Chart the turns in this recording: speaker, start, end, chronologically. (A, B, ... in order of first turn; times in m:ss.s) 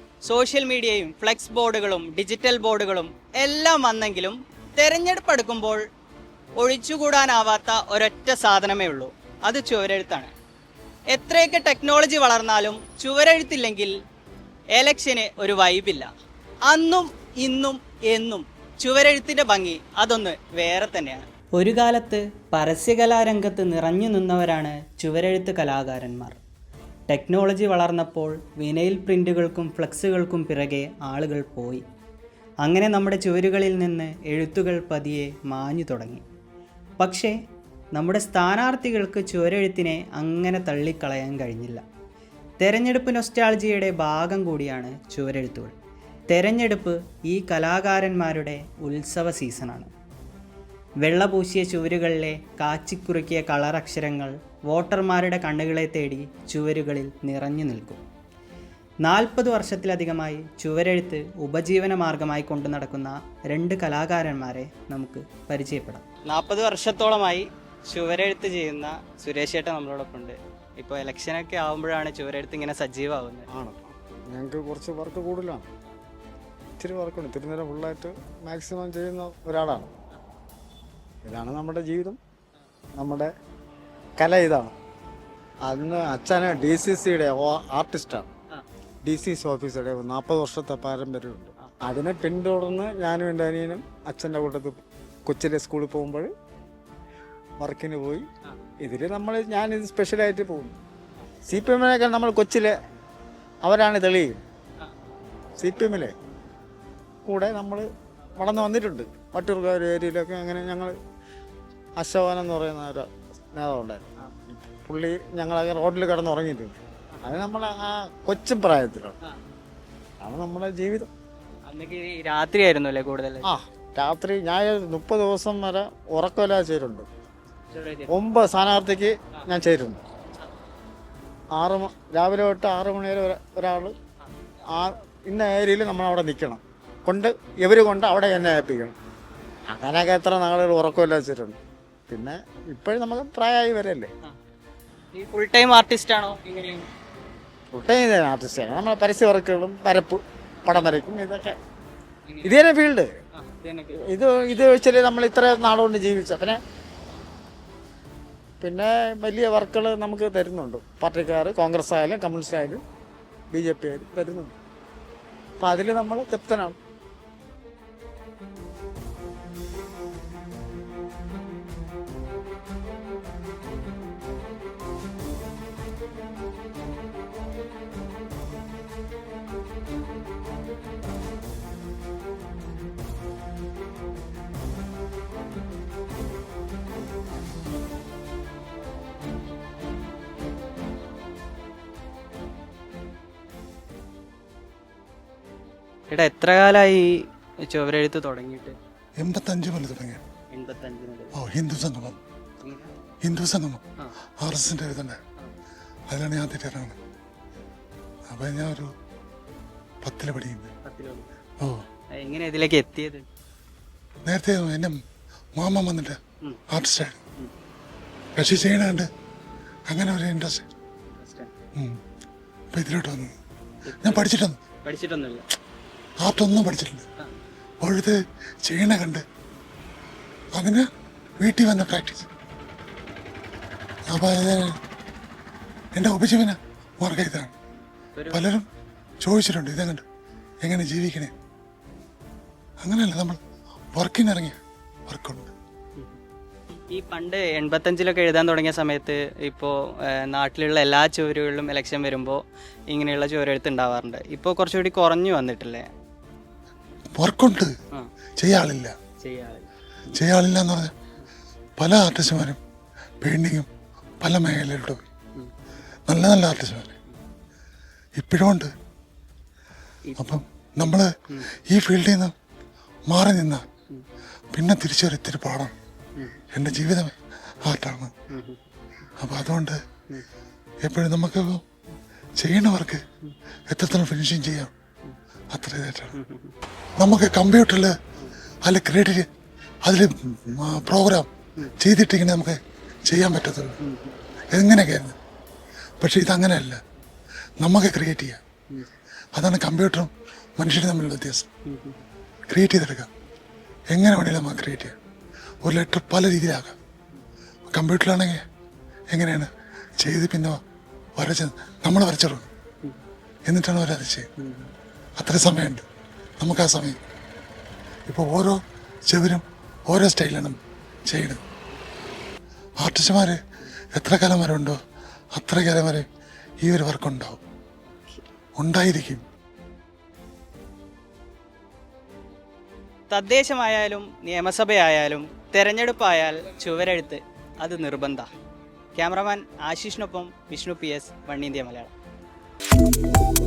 0:00.2-0:05.8 A
0:06.6-0:10.3 A
0:11.1-0:14.0 A
0:14.7-0:16.1 A
0:16.7-0:26.4 A
0:27.1-0:31.8 A
0:32.6-0:36.2 A
0:37.0-0:37.3 A
0:37.9-0:41.8 A
0:42.6-0:45.7 A
0:46.3-0:49.9 A
0:51.0-0:58.0 A
0:59.0-1:13.5 A
1:13.5-1:15.7 B
1:16.8-1:19.9 B
1:21.2-1:22.2 B
1:23.0-1:23.3 B
1:24.2-1:24.7 B
1:25.6-1:28.3 B
1:29.0-1:36.3 B
1:37.6-1:38.3 B
1:38.8-1:40.7 B
1:41.5-1:42.7 B
1:43.6-1:44.4 B
1:45.6-1:46.1 B
1:47.2-1:47.9 B
1:48.4-1:50.9 B
1:52.0-1:54.0 B
1:54.8-1:59.2 B
2:00.2-2:01.1 B
2:01.6-2:03.4 A
2:03.4-2:07.0 B
2:07.7-2:08.1 A
2:08.1-2:10.0 B
2:11.5-2:13.9 B
2:14.7-2:18.9 B
2:19.7-2:21.6 B
2:22.1-2:24.1 B
2:25.1-2:26.9 A
2:27.7-2:31.6 B
2:32.3-2:32.5 A
2:32.4-2:33.1 B
2:33.3-2:34.0 A
2:34.0-2:36.6 B
2:38.6-2:42.8 B
2:43.5-2:44.5 B
2:45.6-2:46.8 B
3:16.1-3:18.8 A
3:19.2-3:20.2 C
3:20.5-3:21.3 A
3:21.3-3:22.2 C
3:22.6-3:22.9 A
3:23.2-3:23.8 C
3:24.4-3:25.2 C
3:26.1-3:27.0 C
3:28.3-3:28.9 C
3:30.0-3:30.7 C
3:30.8-3:31.3 A
3:32.2-3:33.2 A
3:34.2-3:35.0 C
3:35.6-3:36.2 C
3:36.7-3:37.2 C
3:38.4-3:39.1 C
3:39.9-3:40.6 C
3:41.1-3:41.5 A
3:42.7-3:43.3 C
3:43.8-3:44.3 A
3:44.0-3:44.6 C
3:44.8-3:45.4 A
3:46.2-3:47.0 C
3:47.8-3:49.2 C
3:50.5-3:50.9 C
3:51.4-3:52.3 C
3:54.1-3:54.8 C
3:55.9-3:57.5 C
3:58.1-3:58.4 A
3:58.3-3:58.7 C
3:59.2-4:00.0 C
4:00.6-4:01.3 C
4:02.8-4:03.4 C
4:03.9-4:05.5 C
4:06.9-4:15.9 A
4:17.2-4:17.7 C
4:18.4-4:18.9 C
4:19.2-4:19.7 A
4:20.1-4:20.9 C
4:21.8-4:22.6 C
4:23.2-4:23.7 C
4:24.2-4:25.0 C
4:26.1-4:26.9 C
4:28.2-4:28.7 C
4:30.0-4:30.4 A
4:30.2-4:31.1 C
4:31.6-4:32.3 C
4:33.1-4:33.6 C
4:34.5-4:35.7 C
4:36.5-4:37.1 C
4:37.7-4:38.1 C
4:38.3-4:38.6 A
4:39.2-4:39.8 C
4:40.8-4:41.6 C
4:42.4-4:43.0 C
4:43.7-4:44.7 C
4:45.5-4:46.1 C
4:46.1-4:46.5 A
4:47.0-4:47.9 C
4:48.6-4:49.3 C
4:49.8-4:51.3 C
4:51.8-4:53.8 C
4:53.8-4:54.2 A
4:54.5-4:55.2 C
4:56.0-4:56.8 C
4:57.6-4:58.4 C
4:59.3-5:01.5 C
5:01.6-5:02.0 A
5:02.5-5:03.1 C
5:03.9-5:04.9 C
5:05.6-5:06.8 C
5:07.7-5:08.4 C
5:09.1-5:09.5 C
5:10.0-5:10.6 C
5:11.2-5:12.5 C
5:13.5-5:14.3 C
5:14.4-5:14.7 A
5:15.2-5:15.8 C
5:16.4-5:17.0 C
5:18.1-5:18.6 C
5:19.1-5:21.4 C
5:22.8-5:23.4 C
5:23.9-5:24.8 C
5:25.3-5:26.1 C
5:26.6-5:27.4 C
5:27.9-5:28.2 A
5:28.6-5:29.2 C
5:33.1-5:38.2 A
5:38.9-5:41.9 A